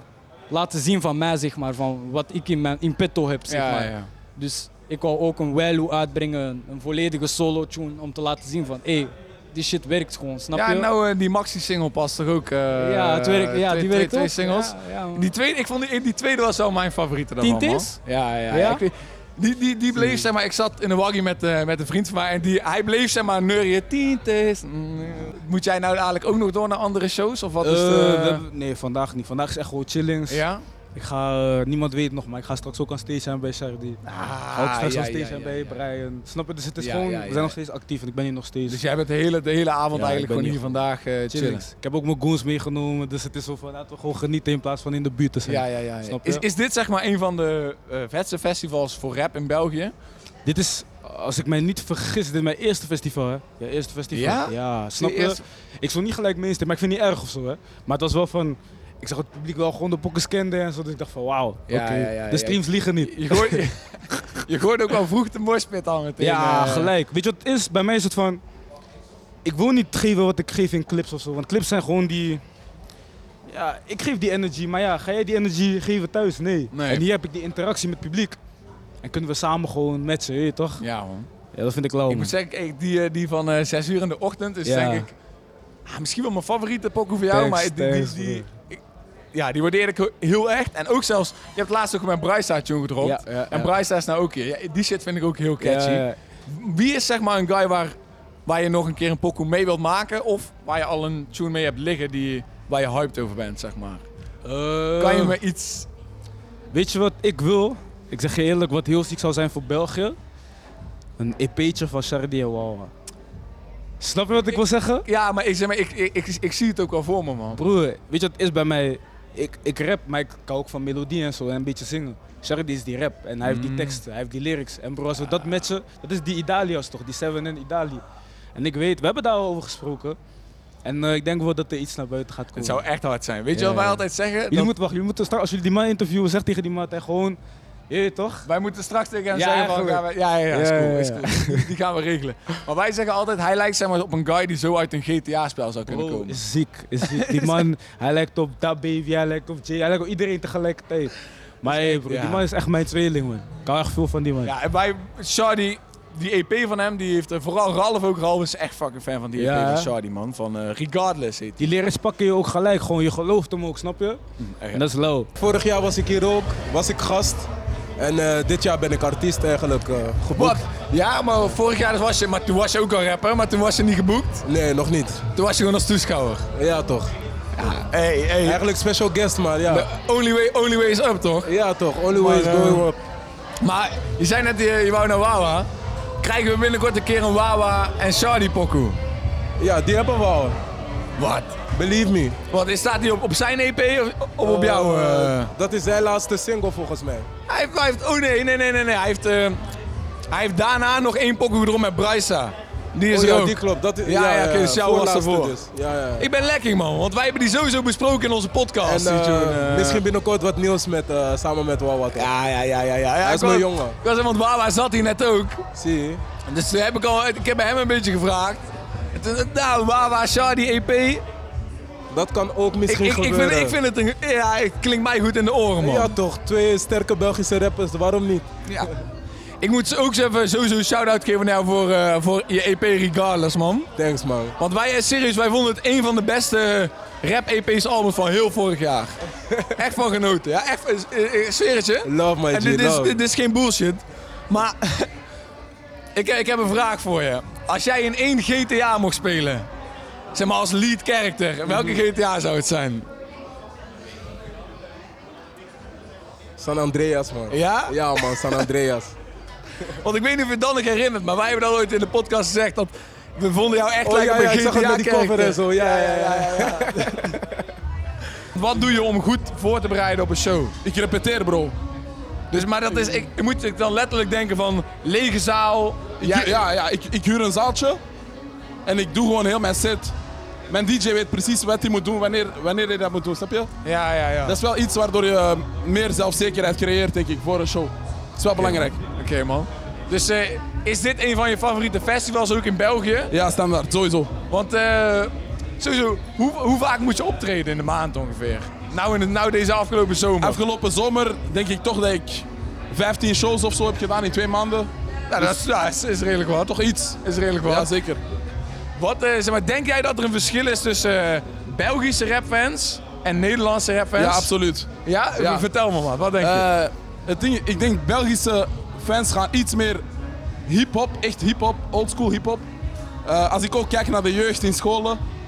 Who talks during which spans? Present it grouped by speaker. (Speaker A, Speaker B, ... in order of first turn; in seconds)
Speaker A: 0.5-10.9, 12.7-15.3, 17.4-18.0, 18.5-18.8
Speaker B: 3.5-4.1, 10.5-28.4, 30.3-30.6, 34.0-35.8, 36.8-37.5, 38.7-41.6, 45.5-49.9, 54.1-55.4, 61.7-66.9, 76.7-77.0, 80.8-81.3, 82.1-85.1, 85.8-88.8, 89.3-97.9, 98.5-104.0, 104.9-105.9, 114.5-117.6, 123.4-124.0, 132.5-134.7, 138.4-146.4, 147.0-147.6, 151.7-152.4, 154.4-161.6, 164.4-164.8, 170.3-174.4, 175.3-176.5, 177.6-178.6, 179.7-181.5, 183.6-185.7, 186.2-189.0, 191.2-191.6, 192.5-195.5, 197.5-199.6, 200.3-205.5, 206.2-210.0, 212.1-215.7, 216.4-221.2, 222.8-226.2, 229.6-233.9, 234.6-239.2, 239.7-245.1, 246.1-249.7, 250.3-253.1, 257.5-258.6, 260.0-267.3, 268.5-270.7, 272.5-276.6, 283.8-284.6, 288.6-293.3, 294.5-300.6, 305.3-307.9, 308.9-314.5, 315.0-316.7
Speaker C: 27.6-30.4, 30.9-34.0, 34.5-38.8, 39.9-46.4, 50.5-64.3, 66.2-68.4, 69.4-72.4, 73.5-78.4, 79.0-80.8, 81.5-82.3, 84.6-85.1, 87.3-88.5, 93.0-93.7, 95.6-96.2, 104.5-105.3, 106.7-110.2, 111.2-112.9, 114.0-115.1, 117.5-128.0, 128.5-130.2, 130.8-132.8, 133.5-138.4, 139.3-141.7, 145.9-154.5, 159.4-159.9, 161.6-164.2, 164.7-165.3, 182.1-182.8
Speaker D: 165.3-167.5, 168.0-170.5, 174.4-175.2, 176.6-177.1, 178.4-179.9, 181.4-183.0, 189.6-190.6, 191.7-192.4, 194.4-197.3, 203.1-206.3, 208.8-212.3, 213.2-213.9, 215.8-216.2, 222.1-223.8, 225.8-228.5, 234.0-234.5, 242.0-243.2, 251.7-252.0, 256.6-259.1, 264.0-267.4
Speaker E: 270.8-271.7, 276.2-278.0, 278.9-280.1, 280.7-283.7, 284.4-289.0, 293.3-294.3, 300.4-305.6, 306.8-308.2, 314.1-315.7, 316.4-320.0, 320.6-322.7, 323.2-325.2